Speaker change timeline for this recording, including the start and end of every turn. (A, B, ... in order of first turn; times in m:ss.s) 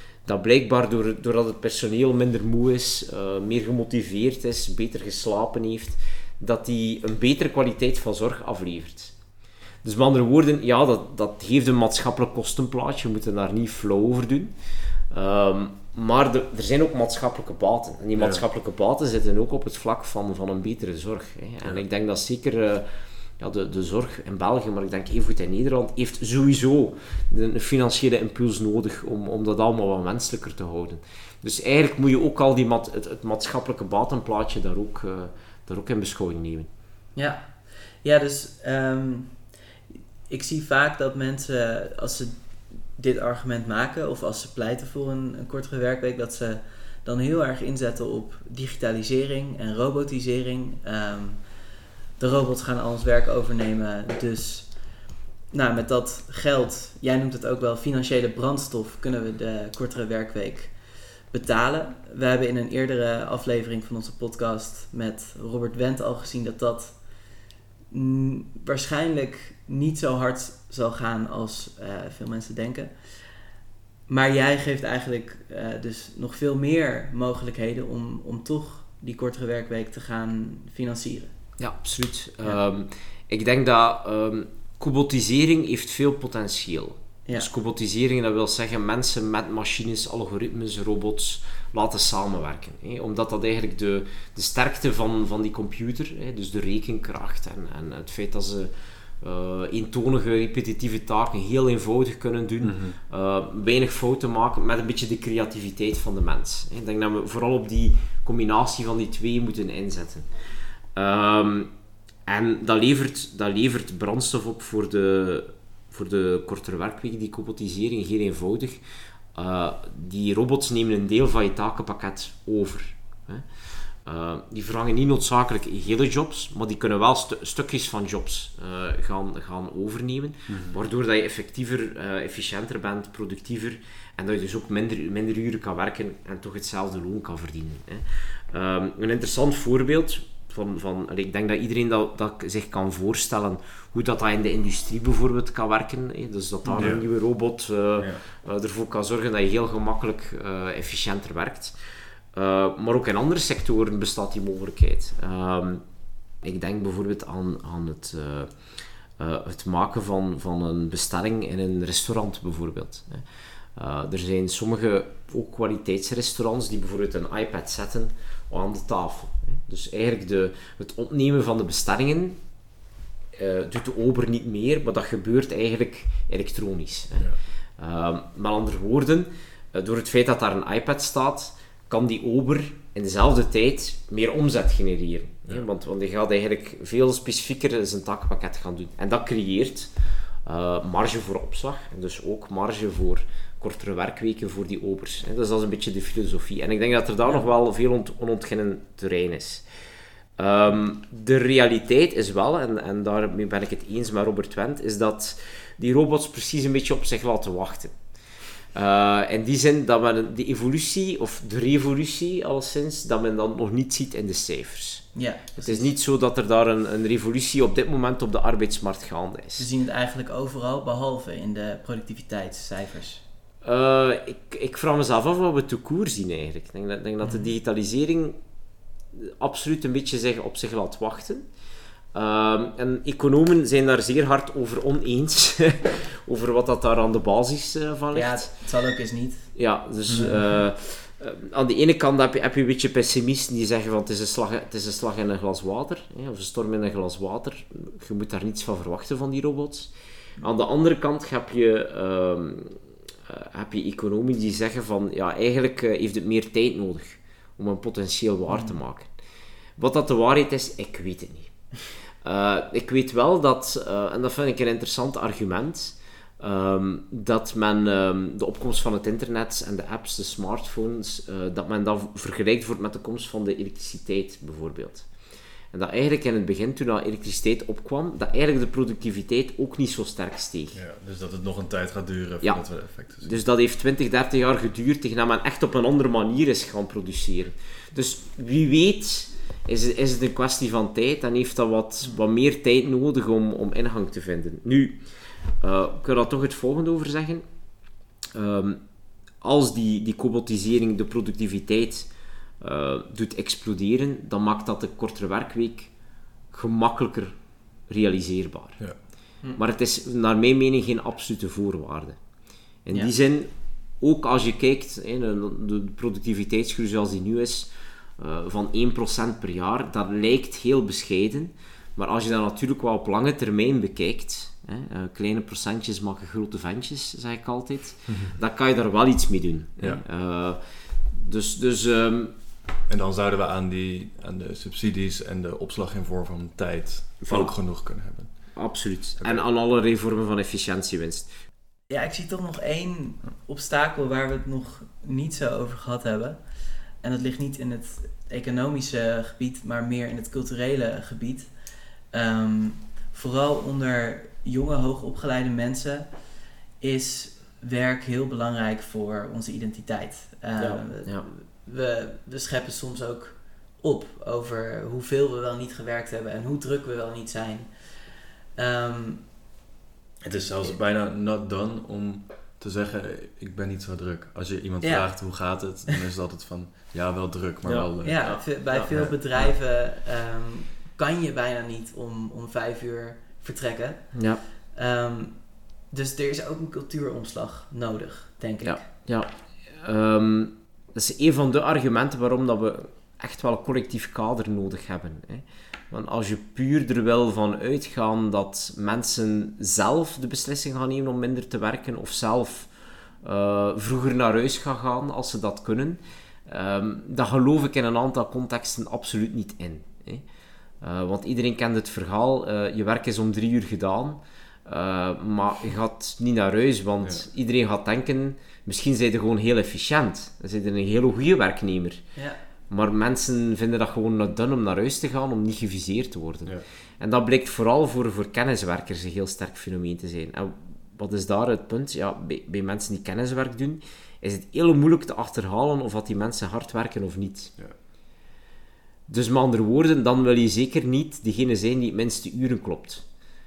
0:00.2-0:09.1 A
0:09.8-0:14.5 A
0:15.1-0:22.9 A
0:18.2-0:18.4 B
0:23.4-0:36.7 A
0:37.2-0:39.5 C
0:40.3-0:42.4 C
0:43.0-0:51.4 C
0:52.2-0:54.8 C
0:55.5-1:00.8 C
1:01.3-1:07.0 C
1:07.9-1:12.9 C
1:14.1-1:21.3 C
1:21.6-1:50.3 A
1:42.6-1:43.0 B
1:51.0-1:51.7 A
1:52.3-1:58.8 A
1:59.3-2:31.7 A
2:10.5-2:10.8 B
2:26.8-2:27.1 B
2:28.0-2:28.2 B
2:32.3-2:35.8 A
2:36.4-2:38.6 A
2:39.2-2:52.4 A
2:53.4-3:09.9 A
3:10.4-3:19.6 A
3:20.4-3:27.9 A
3:28.7-3:35.1 A
3:35.2-3:35.9 C
3:35.6-3:39.7 A
3:39.6-3:43.2 C
3:43.6-3:48.4 A
3:47.2-3:47.5 C
3:49.2-3:51.4 A
3:52.1-3:58.5 A
3:58.1-3:59.6 C
3:59.6-4:19.1 A
4:00.1-4:00.6 C
4:18.5-4:18.8 C
4:19.8-4:21.5 A
4:22.2-4:35.1 A
4:35.7-4:40.8 A
4:40.7-4:43.4 B
4:43.2-4:55.0 A
4:55.6-4:57.4 A
4:58.3-4:58.8 A
4:59.4-5:05.9 A
5:06.5-5:07.4 A
5:07.9-5:08.9 A
5:09.5-5:12.2 A
5:12.8-5:32.3 A
5:32.9-5:38.6 B
5:37.2-5:37.6 A
5:38.5-5:41.3 A
5:39.2-5:39.5 B
5:41.9-5:46.5 C
5:47.0-5:51.5 C
5:52.1-5:56.2 C
5:56.8-6:09.3 C
6:00.6-6:01.3 A
6:10.2-6:19.4 B
6:14.8-6:16.0 C
6:17.6-6:18.5 A
6:18.0-6:28.9 C
6:24.2-6:24.4 A
6:28.6-6:42.7 A
6:43.2-6:50.2 A
6:50.8-7:02.0 A
6:57.0-6:57.3 B
7:02.7-7:17.6 A
7:19.1-7:23.0 A